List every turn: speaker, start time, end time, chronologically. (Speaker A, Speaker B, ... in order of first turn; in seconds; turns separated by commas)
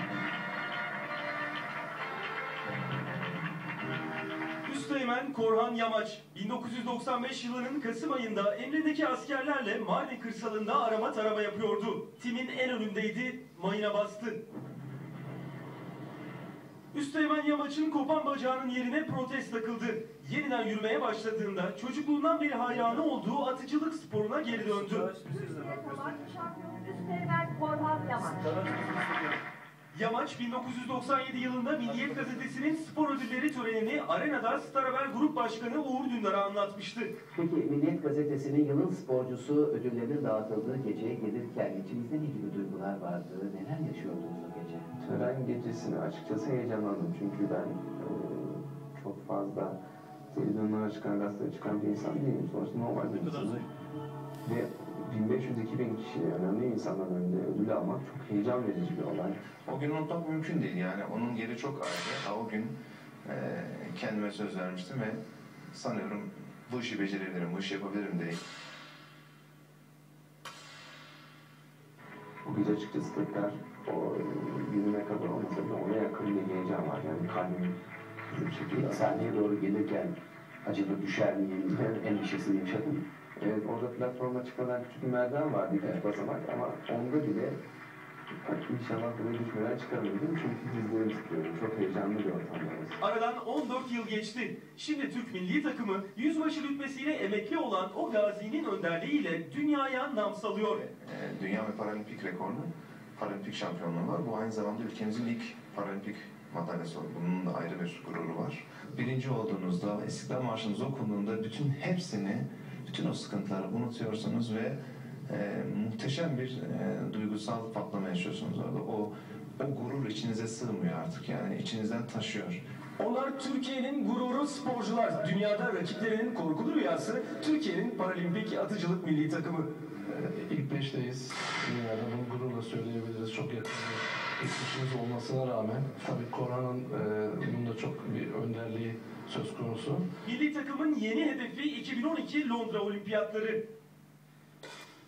Speaker A: 4.6-14.4, Speaker A: 16.9-25.2, Speaker B: 25.2-28.8, Speaker A: 29.9-37.1, Speaker C: 37.3-44.9, Speaker D: 45.0-49.8, Speaker D: 50.3-53.6, Speaker D: 54.4-59.4, Speaker E: 59.6-62.7, Speaker E: 63.2-65.2, Speaker E: 65.7-68.4, Speaker D: 72.4-77.8, Speaker D: 78.3-79.2, Speaker C: 78.9-83.0, Speaker D: 83.4-87.6, Speaker D: 88.4-93.0, Speaker A: 93.0-100.8, Speaker E: 100.7-114.8, Speaker E: 115.3-122.6, Speaker A: 123.0-129.7, Speaker F: 130.1-140.0, Speaker A: 140.2-143.6